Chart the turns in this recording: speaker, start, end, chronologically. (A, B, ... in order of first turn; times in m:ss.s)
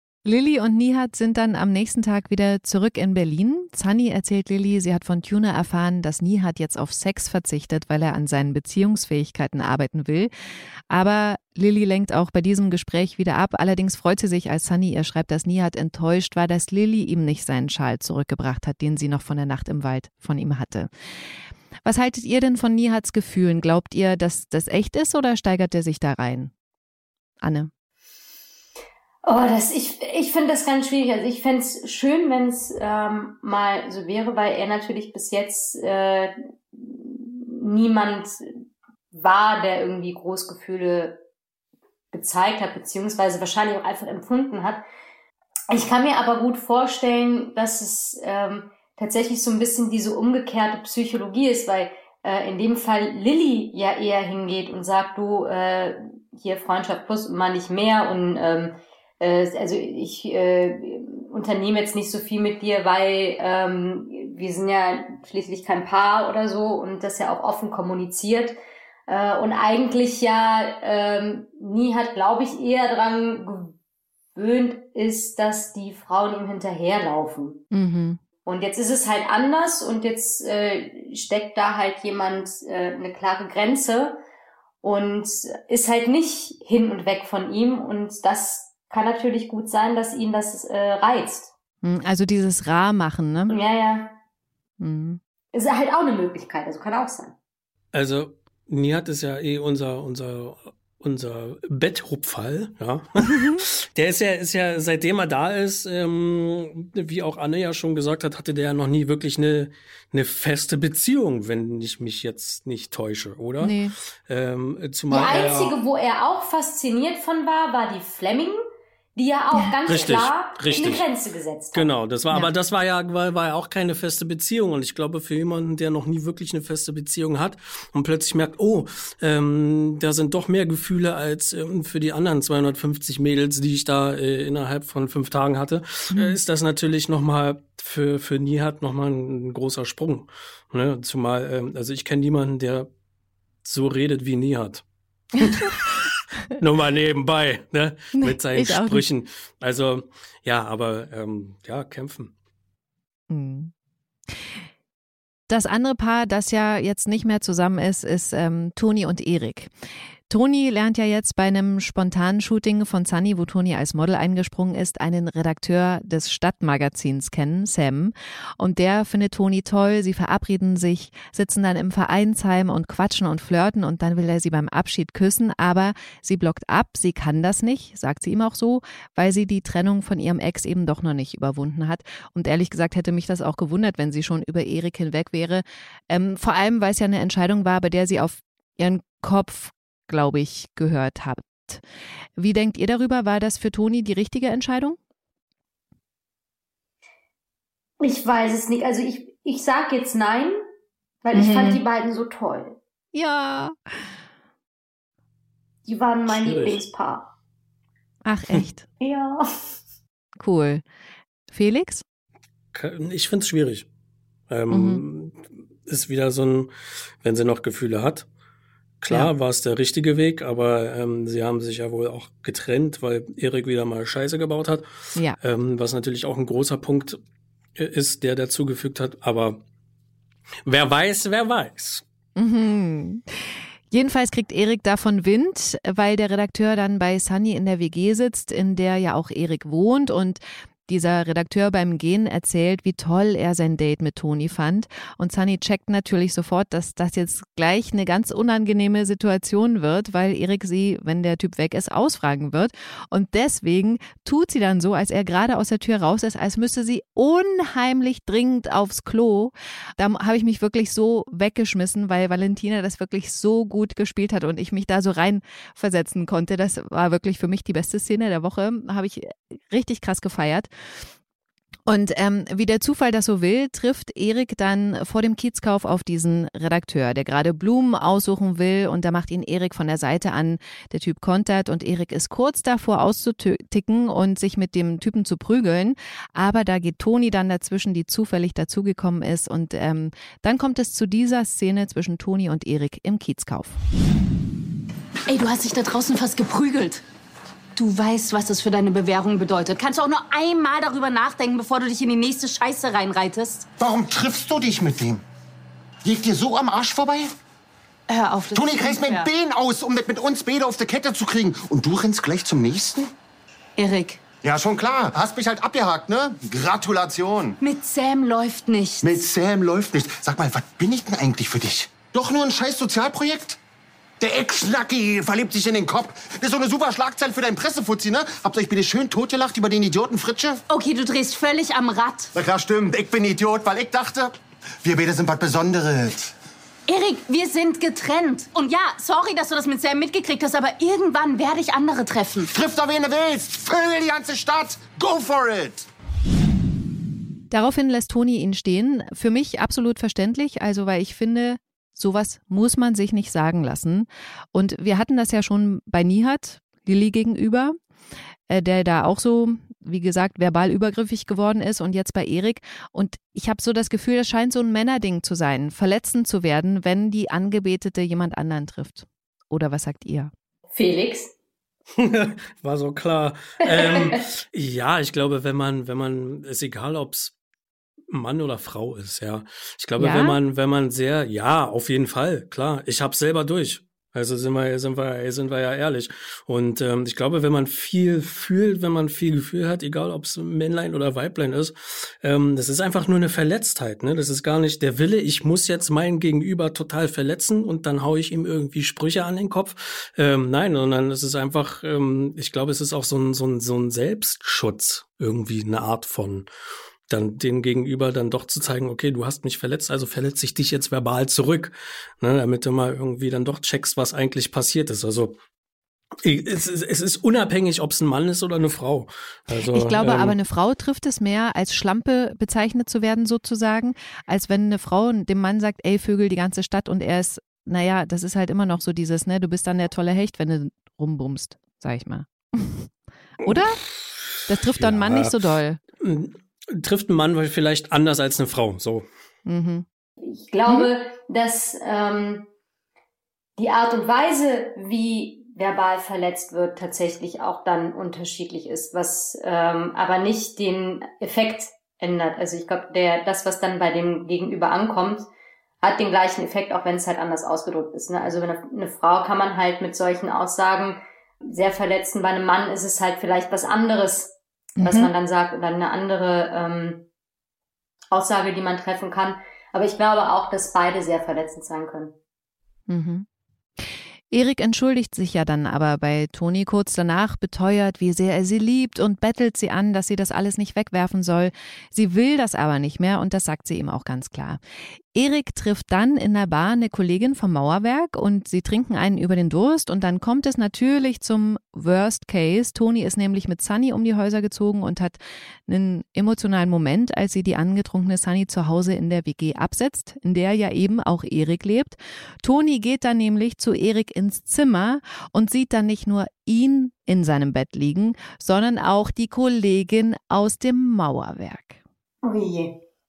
0:00.2-0:10.3 A
0:10.9-0:20.9 A
0:21.8-0:26.5 A
0:27.4-0:27.7 A
0:29.2-0:38.4 B
0:39.1-0:41.2 B
0:42.1-0:44.8 B
0:45.7-1:08.6 B
1:09.1-1:13.8 B
1:14.4-1:17.6 B
1:17.7-1:18.2 A
1:18.5-1:24.2 B
1:24.8-1:31.5 B
1:31.8-1:33.6 A
1:33.5-1:34.2 B
1:34.8-1:35.2 A
1:35.5-1:37.4 B
1:37.9-1:55.8 C
1:53.6-1:54.0 A
1:55.1-1:58.6 B
1:59.2-2:01.9 B
1:59.9-2:01.0 C
2:01.7-2:22.9 C
2:16.1-2:16.4 A
2:23.6-2:24.8 C
2:25.4-2:26.0 C
2:26.6-2:32.3 C
2:28.1-2:29.0 A
2:33.3-2:33.7 A
2:34.3-2:34.6 A
2:35.5-2:39.7 A
2:40.3-3:11.8 A
3:12.4-3:15.0 A
3:18.0-3:20.6 B
3:21.2-3:22.8 B
3:21.3-3:21.8 A
3:23.1-3:23.9 A
3:25.9-3:27.3 B
3:26.3-3:26.8 C
3:28.2-3:28.9 A
3:29.0-3:29.4 B
3:30.4-3:30.8 A
3:31.5-3:32.0 A
3:32.7-3:33.9 C
3:34.5-3:36.7 C
3:34.7-3:35.0 A
3:37.2-3:38.3 C
3:39.0-3:44.9 C
3:45.4-3:47.2 C
3:47.8-3:49.6 C
3:50.6-3:52.0 C
3:52.4-4:30.7 A
4:31.9-4:53.8 A
4:55.3-4:57.0 D
4:57.8-5:03.7 D
5:03.8-5:05.2 E
5:06.0-5:07.3 E
5:08.1-5:09.3 D
5:08.5-5:13.1 E
5:13.8-5:14.2 D
5:14.4-5:17.6 E
5:17.6-5:19.1 D
5:19.0-5:23.6 E
5:24.2-5:30.6 E
5:30.7-5:32.3 D
5:32.3-5:36.3 E
5:36.9-5:42.5 D
5:42.5-5:45.9 E
5:47.5-5:57.8 A
5:58.5-6:10.3 A
6:10.7-6:11.3 B
6:12.0-6:17.4 C
6:18.1-6:46.5 C
6:20.0-6:20.4 A
6:47.1-6:55.4 C
6:56.2-7:00.4 C
6:59.6-7:13.8 A
7:13.5-7:15.3 C
7:14.4-7:15.8 A
7:16.0-7:19.1 C
7:19.4-7:19.9 A
7:20.2-7:22.5 B
7:23.6-7:35.3 B
7:35.8-7:47.1 B
7:44.8-7:45.1 A
7:48.1-7:52.2 B
7:52.9-7:53.3 A
7:53.8-8:04.6 A
8:05.1-8:31.8 A
8:32.2-8:32.8 B